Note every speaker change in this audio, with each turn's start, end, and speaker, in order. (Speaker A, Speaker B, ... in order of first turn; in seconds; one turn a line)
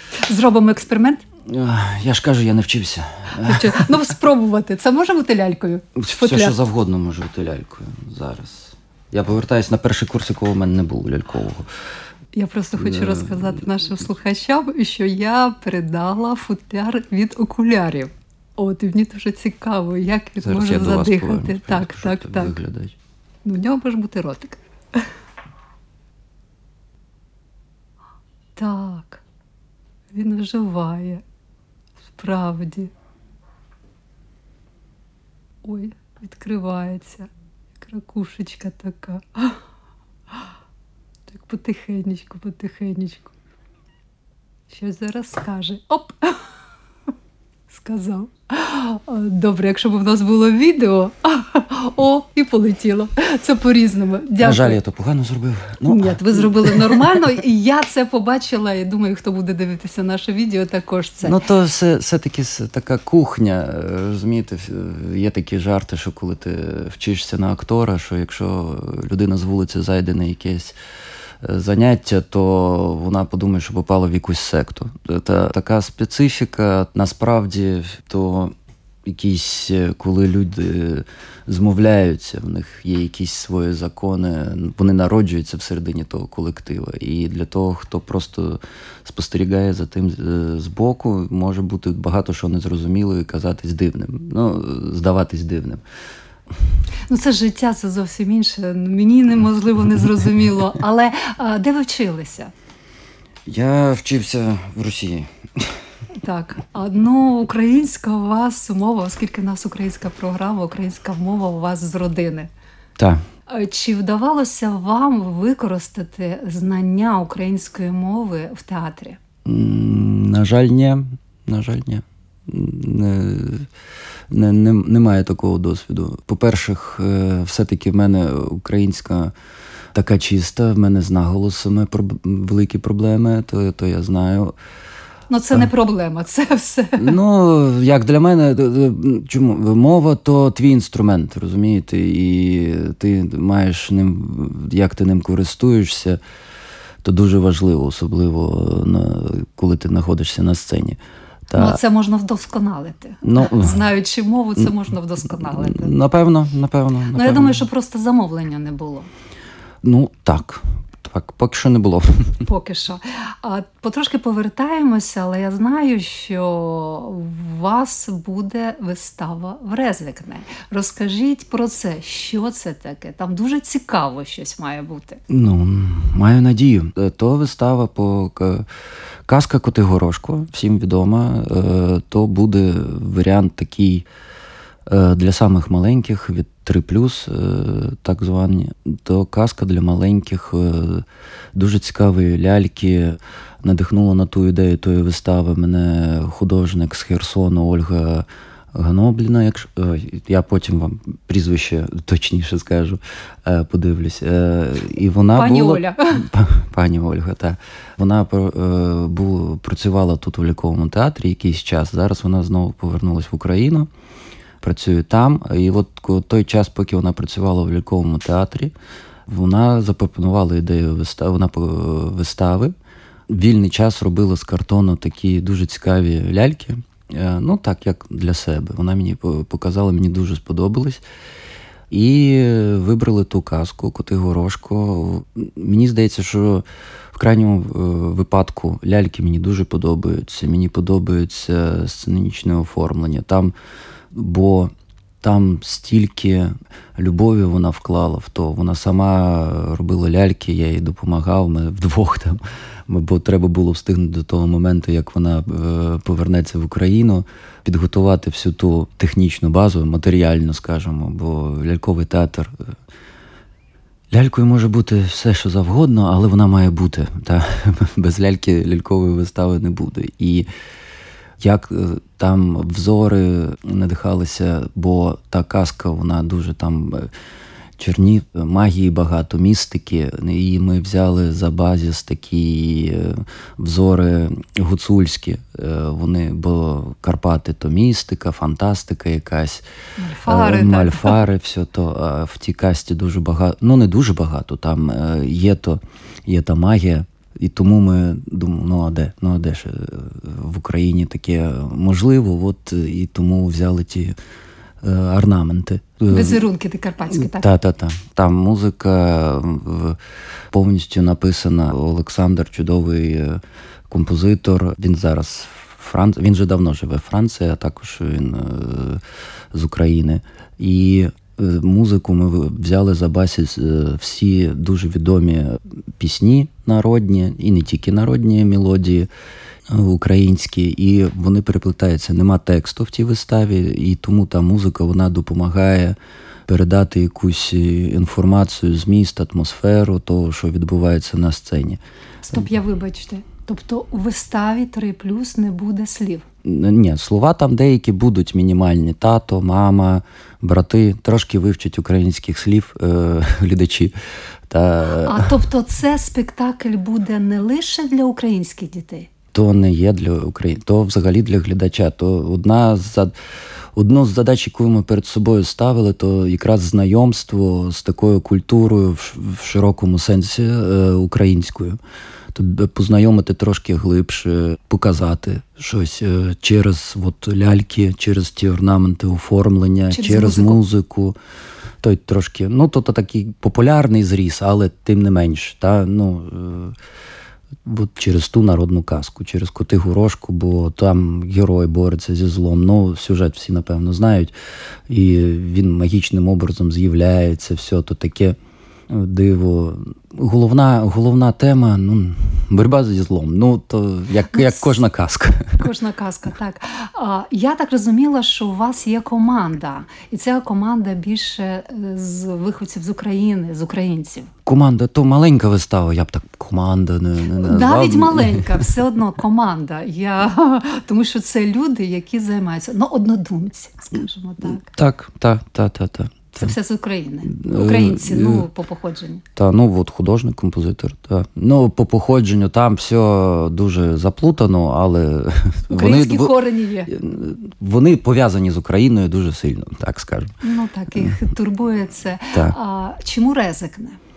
Speaker A: 0.2-1.2
Speaker B: 1.5-3.9
Speaker A: 3.4-6.6
Speaker B: 6.0-11.7
Speaker A: 12.3-22.6
Speaker B: 12.8-13.6
Speaker B: 20.4-22.9
Speaker A: 23.4-25.1
Speaker A: 28.6-29.2
Speaker A: 30.1-31.2
Speaker A: 32.1-32.9
Speaker A: 35.6-39.6
Speaker A: 41.3-43.3
Speaker A: 44.7-46.4
Speaker A: 47.7-54.8
Speaker B: 54.4-57.2
Speaker A: 55.8-61.4
Speaker B: 61.2-70.7
Speaker B: 71.4-78.5
Speaker B: 79.0-95.8
Speaker A: 97.1-102.5
Speaker B: 103.5-105.8
Speaker A: 106.2-112.5
Speaker B: 113.0-113.2
Speaker A: 113.5-119.2
Speaker B: 119.4-123.7
Speaker B: 124.3-129.3
Speaker B: 129.9-134.5
Speaker A: 135.3-137.1
Speaker B: 137.0-146.2
Speaker B: 147.0-151.8
Speaker A: 151.5-155.9
Speaker B: 153.2-153.8
Speaker B: 155.4-157.6
Speaker A: 157.1-159.1
Speaker B: 159.8-162.4
Speaker A: 162.4-175.2
Speaker B: 175.3-178.7
Speaker B: 179.2-184.0
Speaker B: 184.9-213.9
Speaker A: 205.3-206.3
Speaker B: 214.6-218.7
Speaker B: 219.3-222.7
Speaker B: 223.3-231.0
Speaker B: 231.9-243.5
Speaker B: 244.1-262.7
Speaker B: 264.1-270.5
Speaker B: 271.4-277.1
Speaker B: 277.8-289.6
Speaker A: 290.0-291.1
Speaker B: 290.2-304.1
Speaker B: 304.8-306.4
Speaker A: 306.1-307.5
Speaker B: 307.2-310.0
Speaker B: 310.5-319.0
Speaker B: 319.5-329.1
Speaker B: 329.7-335.9
Speaker B: 336.5-341.8
Speaker A: 342.2-346.2
Speaker B: 346.4-353.9
Speaker B: 354.5-355.4
Speaker A: 354.9-359.1
Speaker B: 359.3-363.1
Speaker B: 363.7-371.8
Speaker B: 372.3-381.1
Speaker A: 379.9-380.6
Speaker B: 381.8-386.8
Speaker B: 387.6-394.3
Speaker B: 394.9-398.4
Speaker B: 398.9-405.7
Speaker A: 404.3-404.7
Speaker A: 405.6-414.3
Speaker B: 414.4-418.7
Speaker A: 417.3-424.7
Speaker B: 424.4-426.5
Speaker A: 426.3-429.2
Speaker B: 427.2-428.4
Speaker B: 429.4-436.4
Speaker A: 435.7-436.9
Speaker B: 436.9-440.3
Speaker A: 440.4-444.0